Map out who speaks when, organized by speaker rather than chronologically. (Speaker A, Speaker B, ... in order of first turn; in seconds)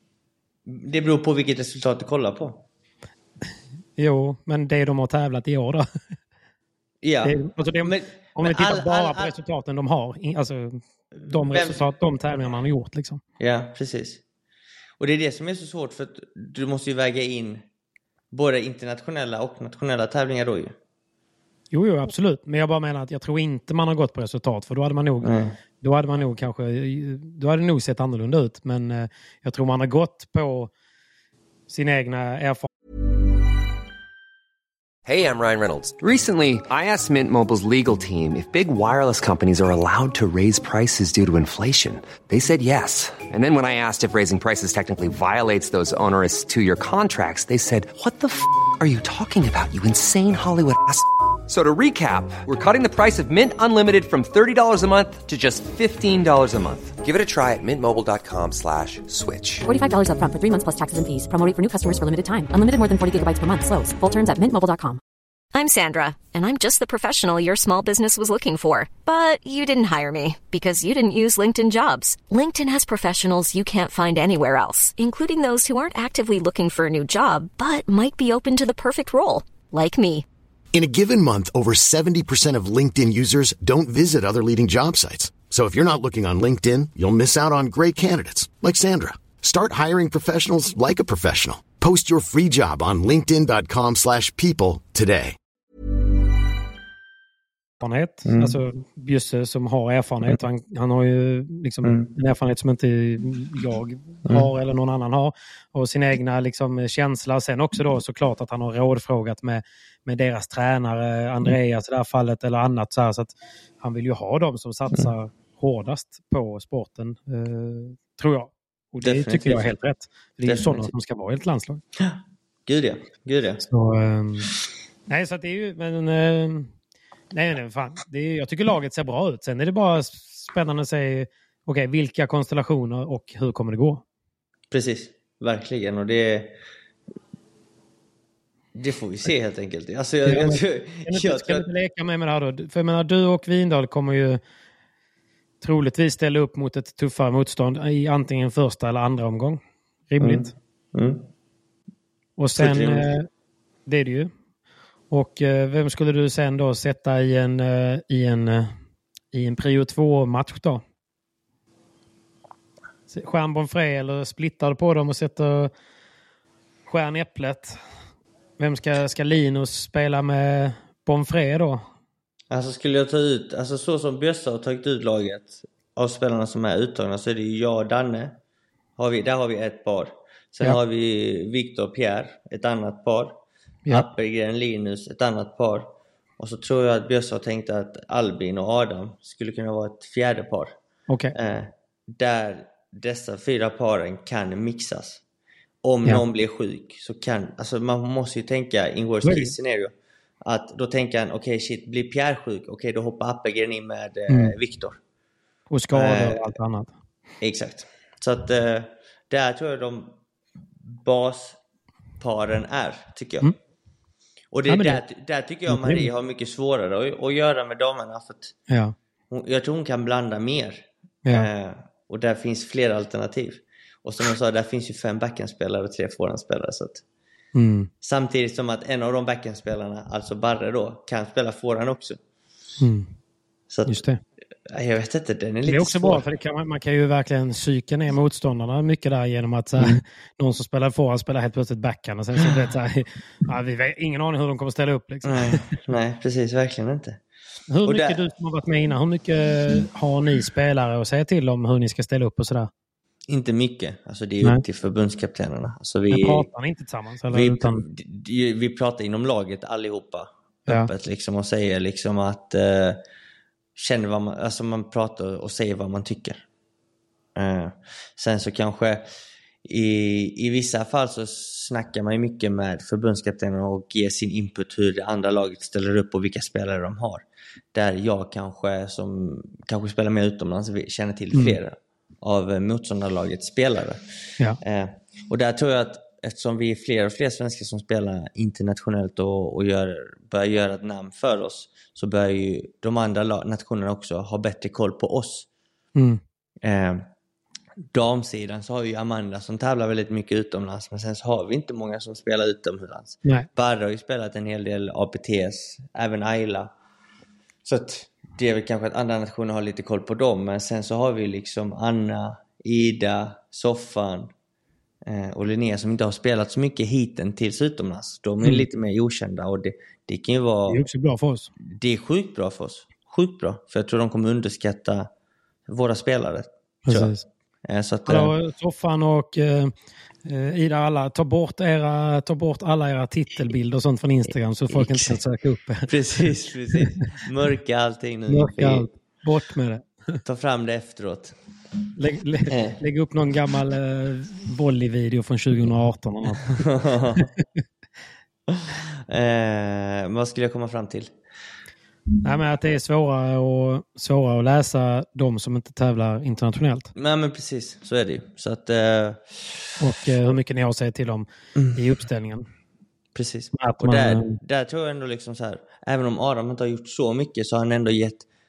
Speaker A: 0.7-2.6, 7.0-9.3, 11.1-11.8, 13.4-14.2, 15.0-17.6, 18.3-20.7, 25.2-25.6, 98.2-98.6, 101.8-102.1, 119.0-119.7, 120.5-120.9, 122.0-123.6, 134.7-136.5, 138.7-141.7, 150.2-151.2, 152.6-153.1, 172.5-178.4, 179.0-190.7, 191.3-195.2, 195.8-199.9, 200.4-205.0, 205.9-206.6, 207.4-210.2, 210.9-211.6, 212.2-213.5, 214.5-218.6, 219.3-227.0, 228.0-232.2, 233.7-234.0, 234.7-236.2, 245.2-247.2, 247.8-248.2, 253.3-256.5, 257.3-263.0, 263.8-266.4, 267.4-269.1, 269.6-284.0, 284.6-295.5, 296.6-297.1, 297.9-306.7, 307.6-314.3, 315.0-320.8, 321.6-325.1, 325.7-327.1, 327.6-328.3, 334.7-335.2, 335.9-338.9, 340.2-341.4, 342.5-342.8, 346.6-347.3, 348.5-351.1, 356.9-359.5, 363.1-368.2
Speaker B: 4.0-5.8, 7.2-13.2, 21.7-30.7, 31.7-32.7, 97.8-121.8, 123.7-124.5, 125.1-126.7, 127.3-134.0, 140.2-144.4, 145.6-150.5, 152.4-153.3, 153.8-154.3, 155.1-158.8, 159.3-160.8, 163.1-165.7, 166.9-167.8, 168.6-171.8, 191.1-191.3, 199.2-199.5, 204.3-204.6, 205.7-206.9, 214.7-215.0, 215.7-216.1, 218.7-218.9, 227.5-227.9, 232.8-233.1, 233.9-234.2, 235.7-245.6, 247.7-252.7, 256.1-257.8, 295.9-296.2, 320.7-321.5, 326.9-327.2, 328.1-329.7, 330.2-335.9, 338.3-340.2, 341.9-346.6, 352.2-356.9, 359.8-362.4, 363.6-364.4
Speaker C: 35.0-59.6
Speaker D: 59.6-65.0
Speaker E: 65.5-80.2
Speaker F: 80.7-95.3